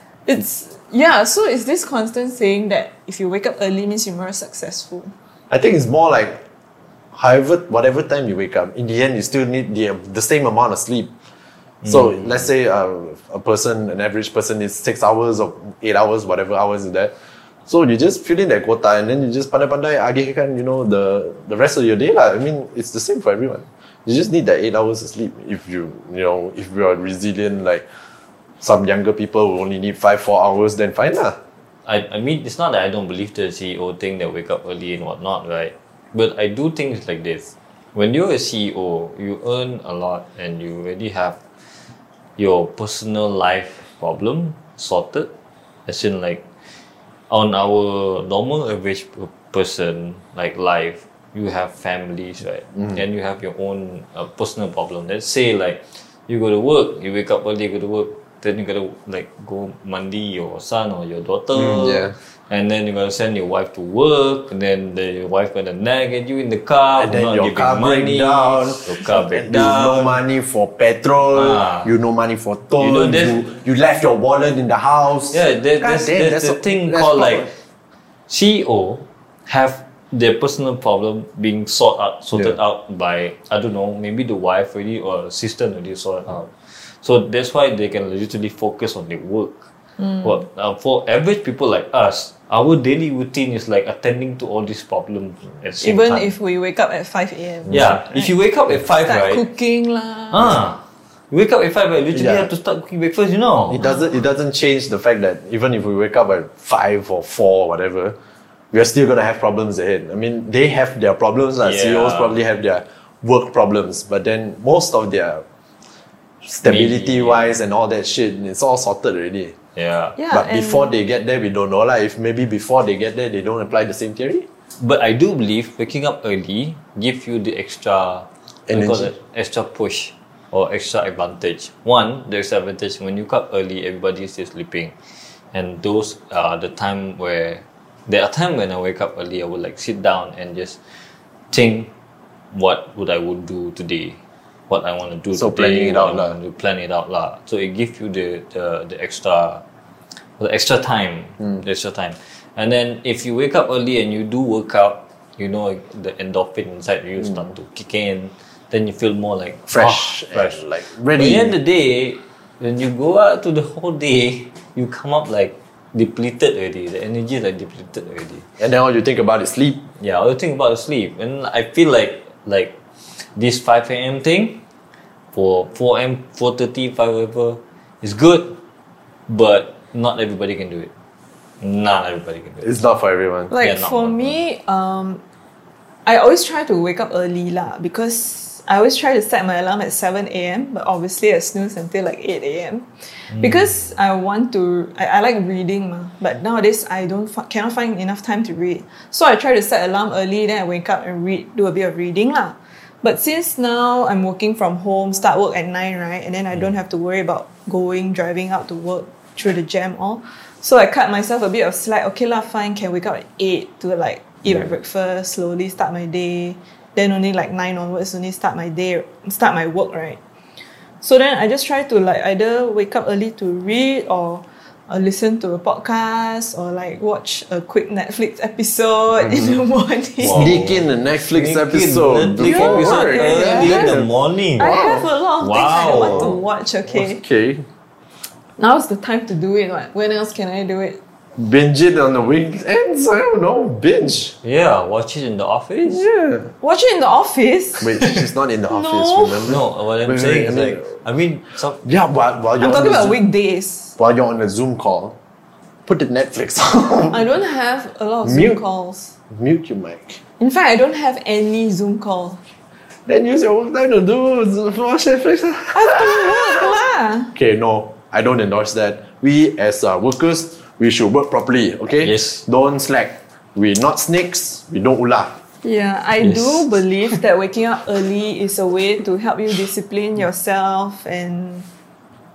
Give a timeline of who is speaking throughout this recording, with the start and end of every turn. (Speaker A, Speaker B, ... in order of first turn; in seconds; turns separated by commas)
Speaker A: 0.3-5.1, Speaker B: 5.5-6.4, Speaker B: 7.1-11.1, Speaker C: 11.8-12.4, Speaker B: 11.8-17.1, Speaker B: 17.7-27.9, Speaker B: 28.6-31.4, Speaker C: 31.9-41.4, Speaker C: 42.4-45.3, Speaker C: 45.9-46.5, Speaker C: 47.3-70.2, Speaker B: 61.5-62.1, Speaker B: 67.0-77.5, Speaker C: 71.3-71.9, Speaker C: 72.8-73.5, Speaker C: 75.3-77.5, Speaker C: 78.3-89.7, Speaker A: 90.0-90.2, Speaker C: 90.2-96.3, Speaker A: 95.8-100.6, Speaker C: 97.7-99.4, Speaker C: 100.3-103.9, Speaker B: 102.1-102.5, Speaker B: 103.7-108.2, Speaker B: 108.7-115.4, Speaker C: 111.6-112.4, Speaker B: 116.4-119.5, Speaker C: 116.6-117.5, Speaker C: 119.8-120.2, Speaker A: 120.2-120.9, Speaker B: 120.3-124.5, Speaker C: 124.8-134.9, Speaker B: 128.7-129.1, Speaker C: 135.5-140.8, Speaker C: 141.5-141.9, Speaker C: 142.5-149.6, Speaker B: 145.3-146.4, Speaker C: 150.4-160.6, Speaker B: 159.7-161.6, Speaker C: 161.1-168.4, Speaker B: 168.6-169.9, Speaker C: 170.0-174.6, Speaker C: 175.3-178.6, Speaker C: 179.3-180.9, Speaker C: 181.6-182.7, Speaker B: 182.6-183.5, Speaker A: 183.5-185.2, Speaker C: 183.6-184.4, Speaker A: 186.1-220.2, Speaker C: 193.3-193.7, Speaker A: 221.0-230.5, Speaker B: 229.2-229.5, Speaker C: 230.2-234.8, Speaker B: 230.3-234.1, Speaker A: 232.4-234.0, Speaker A: 234.6-237.2, Speaker B: 234.6-235.1, Speaker C: 235.4-236.4, Speaker B: 236.1-237.7, Speaker A: 238.6-241.0, Speaker B: 241.4-244.4, Speaker C: 244.4-246.1, Speaker B: 245.9-246.5, Speaker A: 246.6-247.9, Speaker B: 247.8-250.9, Speaker A: 248.7-249.5, Speaker C: 249.5-251.8, Speaker B: 251.8-253.2, Speaker A: 252.6-253.9, Speaker B: 254.0-255.2, Speaker B: 255.9-257.2, Speaker A: 257.1-259.1, Speaker B: 258.2-258.6, Speaker B: 259.3-260.2, Speaker A: 260.4-262.4, Speaker B: 263.1-266.8, Speaker A: 265.7-267.3, Speaker B: 267.3-275.4, Speaker C: 272.0-272.5, Speaker A: 275.6-281.7, Speaker C: 276.2-276.9